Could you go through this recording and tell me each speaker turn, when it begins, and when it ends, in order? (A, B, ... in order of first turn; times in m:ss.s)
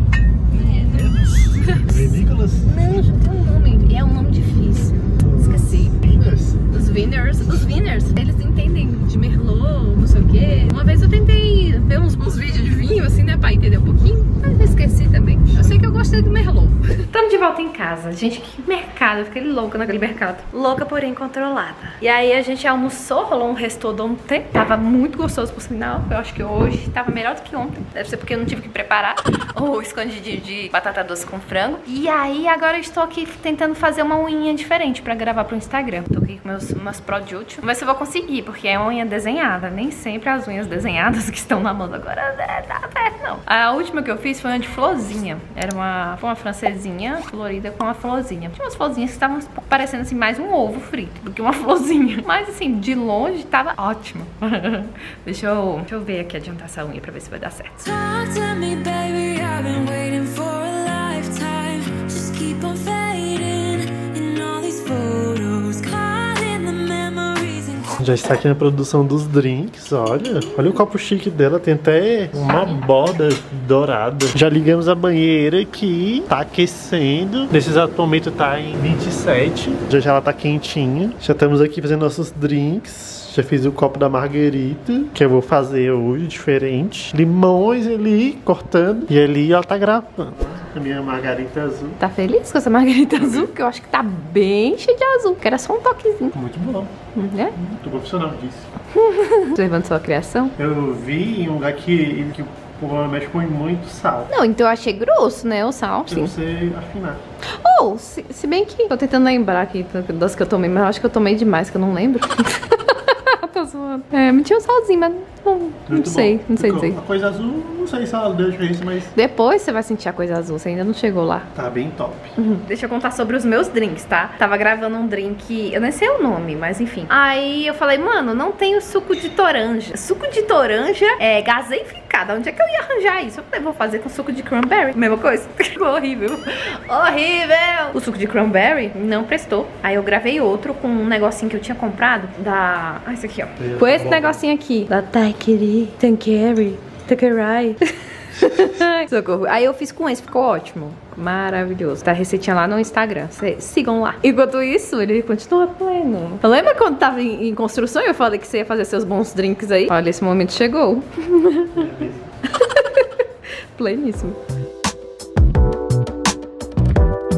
0:00.4-0:06.0 A
0:00.8-0:02.7 B
0:05.2-0:06.6 B
0:06.7-0:57.8 A
0:57.8-1:08.0 C
1:08.0-1:32.0 B
1:12.4-1:12.7 A
1:32.0-1:36.4 A
1:33.2-1:33.5 B
1:36.3-1:36.9 B
1:37.1-1:37.6 A
1:37.6-1:38.7 B
1:38.9-1:40.6 A
1:40.6-1:44.3 B
1:44.3-1:46.3 A
1:46.1-1:47.2 B
1:47.4-1:57.0 A
1:55.9-1:59.1 B
1:59.1-2:01.5 A
2:01.6-2:02.3 B
2:02.4-2:41.9 A
2:23.6-2:24.4 B
2:41.8-2:42.3 B
2:42.5-2:43.1 A
2:43.8-2:44.4 A